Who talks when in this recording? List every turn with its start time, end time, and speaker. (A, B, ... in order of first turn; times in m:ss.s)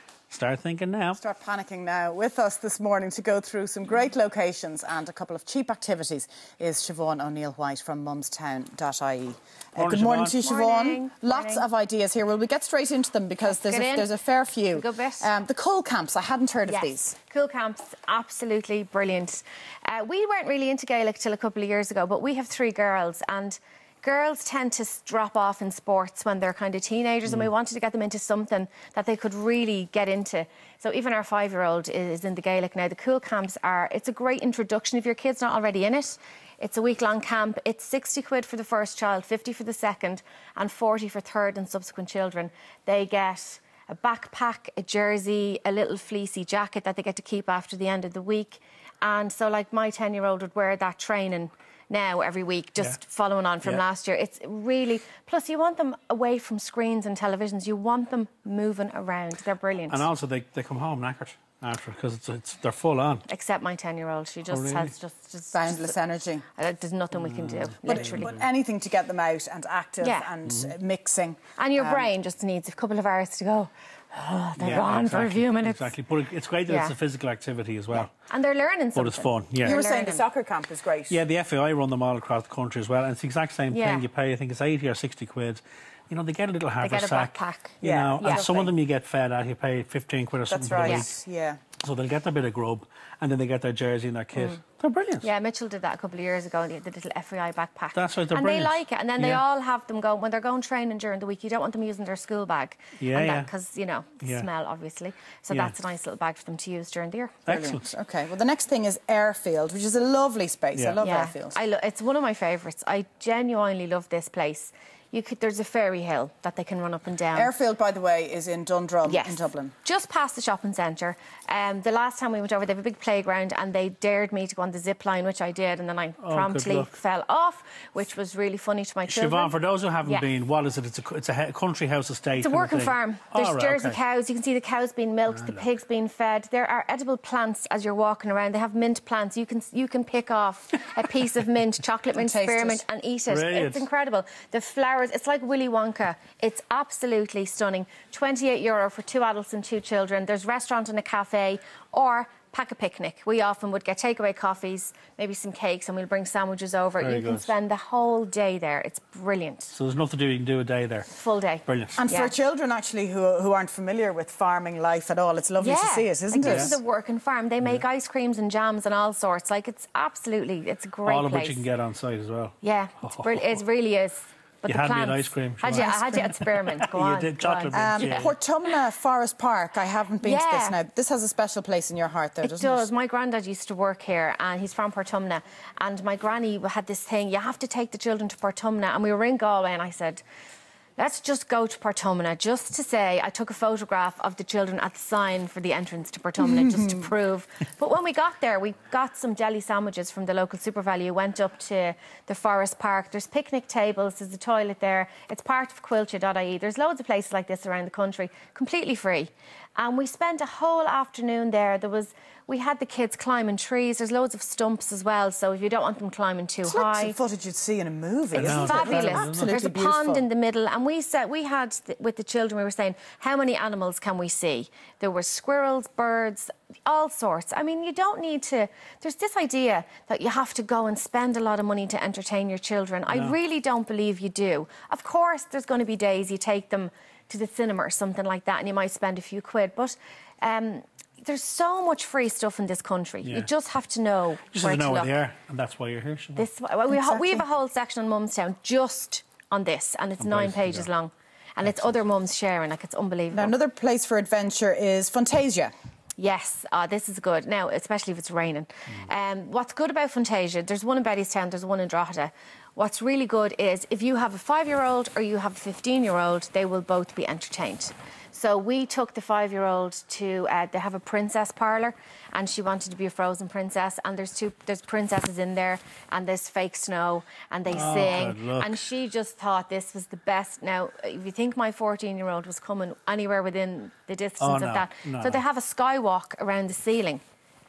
0:00.3-0:01.2 A
0:01.2-0:17.2 B
0:09.8-0:10.4 A
0:10.4-0:11.7 C
0:13.4-0:14.2 C
0:14.7-0:15.3 C
0:16.7-1:00.0 C
0:59.9-1:03.2 A
1:03.3-1:06.0 C
1:04.5-1:04.9 A
1:05.5-1:06.4 B
1:06.6-1:08.4 C
1:07.2-1:08.2 A
1:07.8-1:12.1 B
1:10.0-1:10.3 C
1:11.6-1:15.9 C
1:14.6-1:18.1 A
1:16.7-1:17.0 C
1:18.0-1:20.2 C
1:19.0-1:19.8 A
1:19.6-1:21.2 B
1:21.1-1:31.1 A
1:23.7-1:24.1 C
1:26.8-1:28.5 C
1:27.8-1:28.7 B
1:30.5-1:31.6 B
1:30.8-1:31.1 C
1:31.8-1:35.3 A
1:35.2-1:47.4 C
1:37.9-1:39.4 A
1:43.0-1:43.5 A
1:47.5-1:47.8 A
1:47.5-1:51.6 B
1:51.0-1:57.5 C
1:57.3-1:59.7 B
1:59.1-2:09.5 C
2:06.2-2:06.9 A
2:09.1-2:14.0 A
2:12.4-2:39.8 C
2:15.3-2:15.6 A
2:22.2-2:22.8 B
2:23.3-2:23.8 A
2:37.0-2:37.5 A
2:39.7-2:41.1 A
2:41.1-2:42.3 C
2:41.7-2:42.0 A
2:42.0-2:46.8 B
2:45.6-2:51.6 C
2:46.4-2:46.8 A
2:51.0-2:53.6 A
2:52.6-2:58.3 C
2:54.6-2:58.4 A
2:55.8-2:56.2 B
2:57.7-3:02.9 B
3:00.2-3:00.8 C
3:02.4-3:10.2 C
3:11.0-3:37.2 C
3:36.6-3:40.2 B
3:38.4-3:39.6 A
3:38.4-4:05.1 C
3:53.1-3:53.4 A
4:04.5-4:06.5 A
4:06.4-4:13.6 C
4:06.9-4:07.4 B
4:10.2-4:10.9 A
4:13.3-4:15.7 B
4:16.2-4:47.2 C
4:37.7-4:38.8 A
4:44.4-4:45.4 A